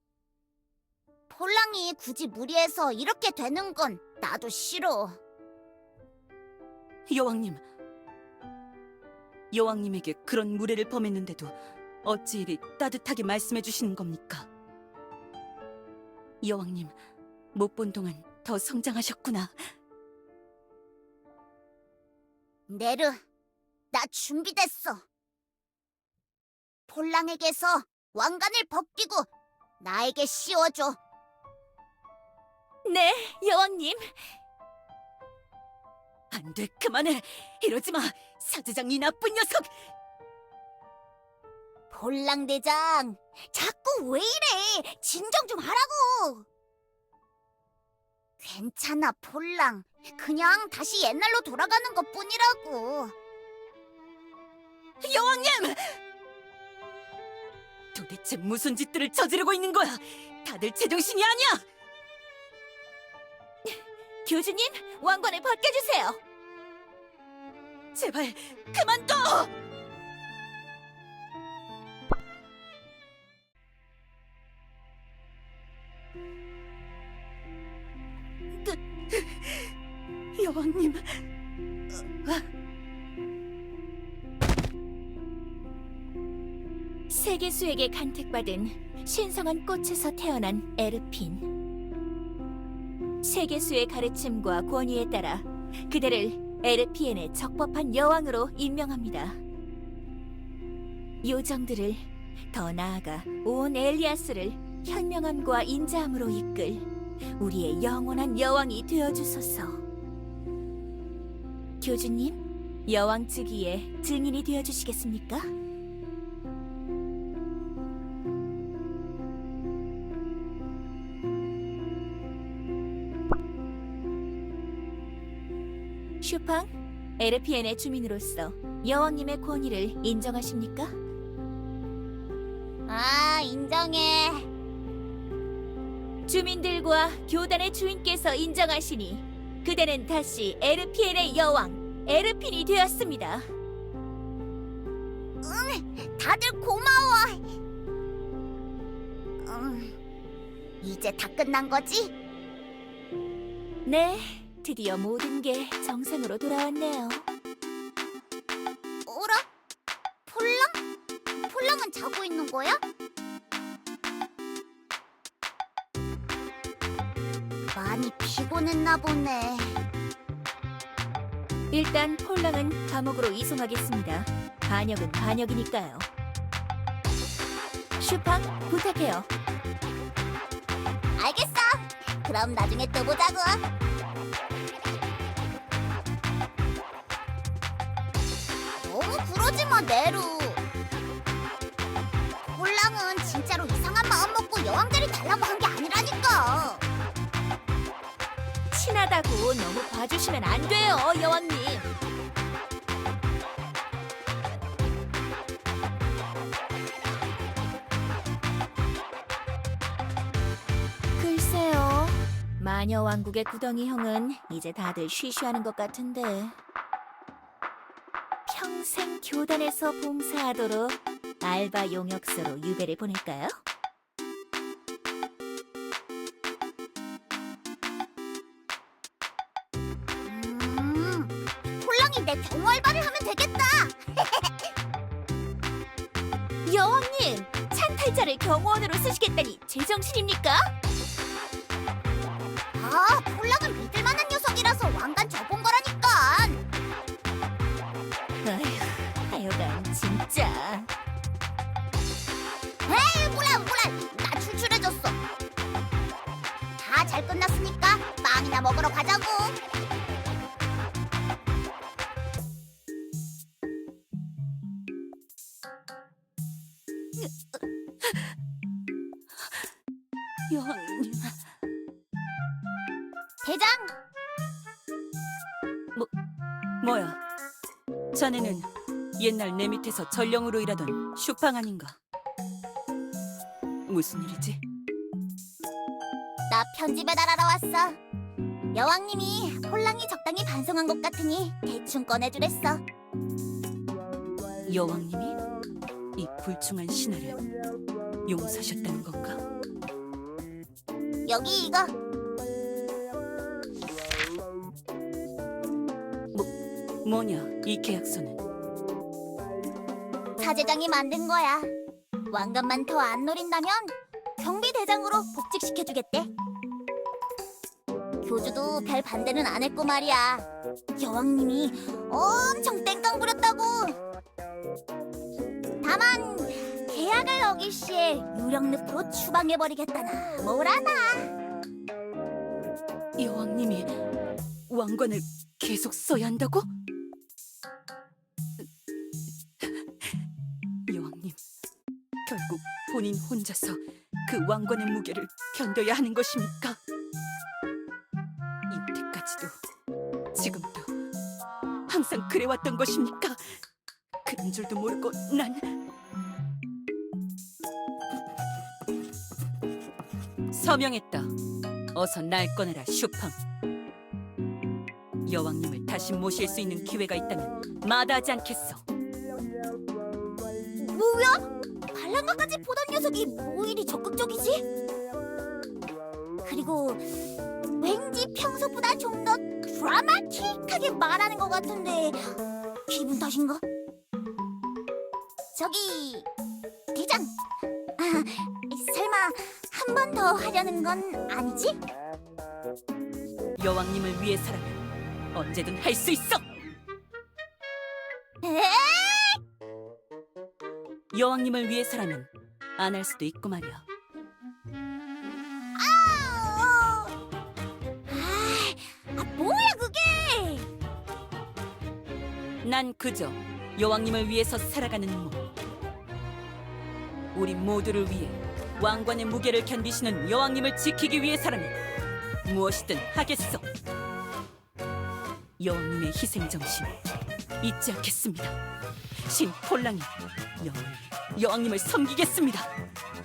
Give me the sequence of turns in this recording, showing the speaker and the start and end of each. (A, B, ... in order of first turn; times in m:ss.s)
0:01.3-0:05.2 A
0:07.1-0:07.6 B
0:09.5-0:14.5 B
0:16.4-0:16.9 B
0:17.5-0:19.6 B
0:22.7-0:23.2 A
0:23.9-0:25.0 A
0:26.9-0:29.3 A
0:29.8-0:31.0 A
0:32.8-0:34.3 C
0:36.3-0:39.7 B
0:41.9-0:46.4 A
0:48.4-0:53.1 A
0:55.0-0:56.0 B
0:57.9-1:01.6 B
1:03.6-1:06.2 C
1:07.9-1:09.5 B
1:18.6-1:19.7 B
1:20.4-1:21.2 B
1:27.1-1:31.5 C
1:33.2-1:39.4 C
1:41.2-1:49.8 C
1:51.8-1:55.5 C
2:06.2-2:10.9 C
2:12.9-2:14.5 A
2:16.2-2:23.5 C
2:25.4-2:27.4 A
2:29.4-2:30.0 A
2:30.8-2:32.1 A
2:33.8-2:37.3 C
2:39.0-2:39.4 A
2:40.2-2:40.8 A
2:41.4-2:42.8 A
2:47.7-2:49.8 A
2:51.7-2:56.1 C
2:58.0-2:59.3 C
3:01.2-3:03.6 A
3:08.8-3:10.6 A
3:12.4-3:16.8 A
3:18.7-3:21.9 C
3:31.2-3:36.6 C
3:38.4-3:43.6 C
3:50.2-3:54.7 A
3:56.6-4:00.7 C
4:02.7-4:06.6 A
4:08.4-4:10.9 C
4:12.8-4:15.2 A
4:16.8-4:19.6 A
4:28.0-4:28.3 B
4:30.5-4:31.4 B
4:33.4-4:33.9 A
4:36.8-4:37.2 B
4:38.1-4:42.0 B
4:43.9-4:44.6 B
4:46.5-4:48.0 A
4:48.7-4:52.8 A
4:54.6-4:55.4 B
4:56.2-4:57.4 B
4:58.2-4:59.4 B
5:01.2-5:01.9 A
5:07.0-5:08.4 B
5:10.4-5:11.7 A
5:12.3-5:16.3 A
5:18.2-5:20.5 A
5:21.0-5:24.0 A
5:25.8-5:31.3 A
5:33.2-5:34.0 B
5:34.7-5:36.7 B
5:39.6-5:40.0 B
5:40.9-5:41.4 B
5:42.2-5:46.8 B
5:48.7-5:49.5 B
5:50.3-5:50.9 B
5:51.9-5:53.4 B
5:54.2-5:55.7 B
6:00.5-6:01.3 B
6:01.9-6:03.4 B
6:05.2-6:08.8 B
6:10.8-6:14.6 A
6:16.4-6:22.3 A
6:22.9-6:23.6 A
6:25.5-6:26.3 A
6:26.9-6:27.3 A
6:28.0-6:31.8 A
6:33.6-6:36.4 B
6:38.4-6:39.4 A
6:41.1-6:43.8 B
6:45.8-6:47.1 A
6:48.1-6:50.7 A
6:52.6-6:55.4 B
6:57.3-7:01.7 B
7:02.4-7:03.6 B
7:05.6-7:06.9 B
7:07.6-7:08.6 B
7:09.2-7:10.1 B
7:10.6-7:12.7 B